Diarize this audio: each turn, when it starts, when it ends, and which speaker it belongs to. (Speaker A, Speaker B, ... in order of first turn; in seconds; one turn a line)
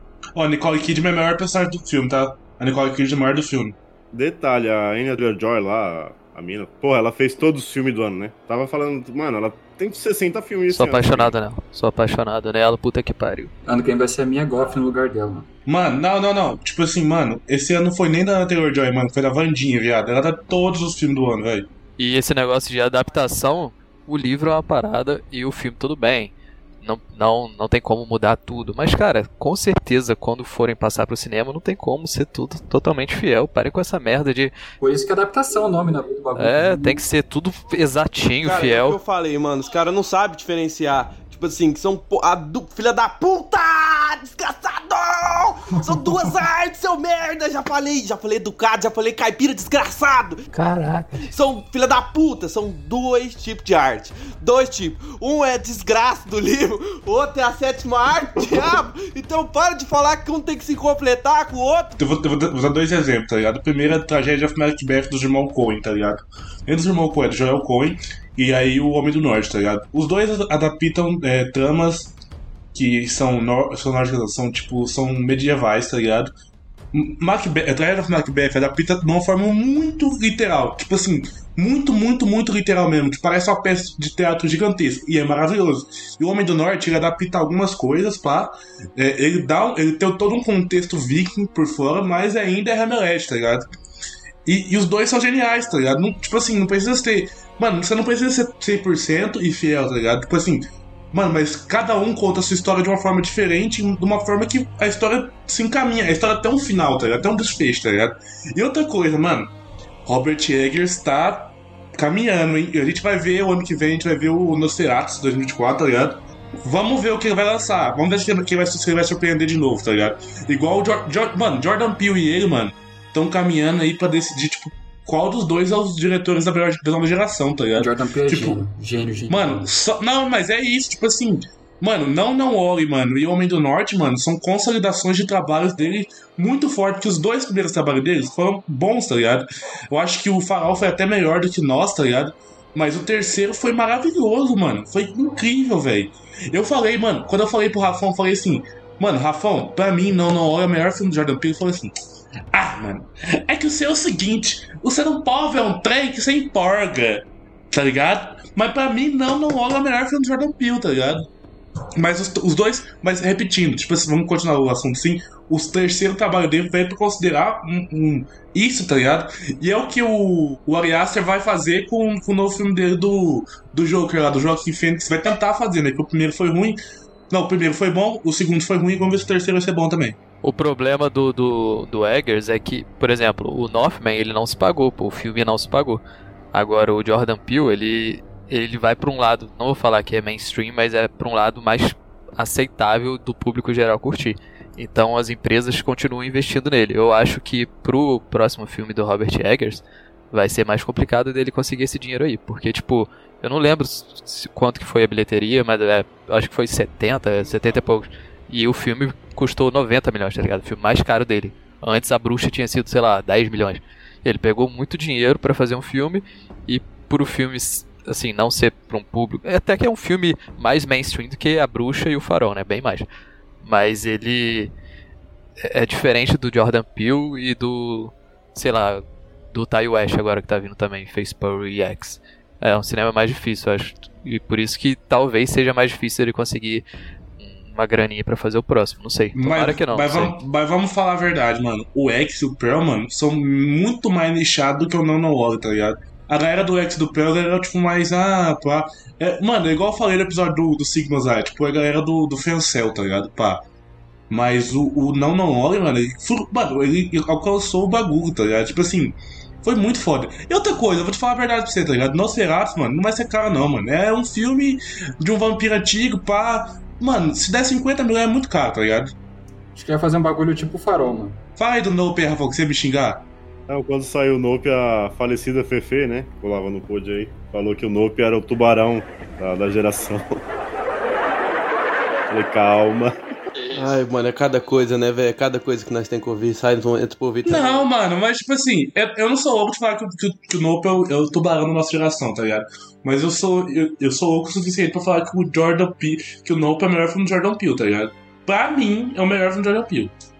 Speaker A: 0.3-3.8
Speaker B: 4.1-11.4
Speaker C: 10.7-13.5
Speaker D: 13.7-15.5
Speaker A: 15.7-21.7
Speaker C: 22.0-34.5
Speaker D: 34.8-37.0
Speaker C: 36.4-39.0
Speaker E: 38.4-50.5
Speaker E: 51.2-61.9
Speaker A: 62.0-72.1
Speaker A: 72.7-76.3
Speaker A: 76.9-93.7
Speaker A: 94.5-109.5
Speaker A: 110.1-128.6
Speaker D: 127.8-129.7
Speaker A: 129.3-151.9
Speaker A: 152.5-161.2
Speaker A: 162.0-176.8
Speaker A: 177.3-180.2
Speaker C: 180.4-186.0
Speaker C: 186.5-223.1
Speaker C: 223.6-224.7
Speaker C: 225.6-236.8
Speaker C: 237.4-240.3
Speaker A: 239.3-253.6
Speaker A: 254.3-269.1
Speaker D: 269.7-271.4
Speaker A: 271.6-273.2
Speaker B: 273.7-280.4
Speaker B: 282.3-283.1
Speaker E: 283.7-287.9
Speaker A: 287.5-300.1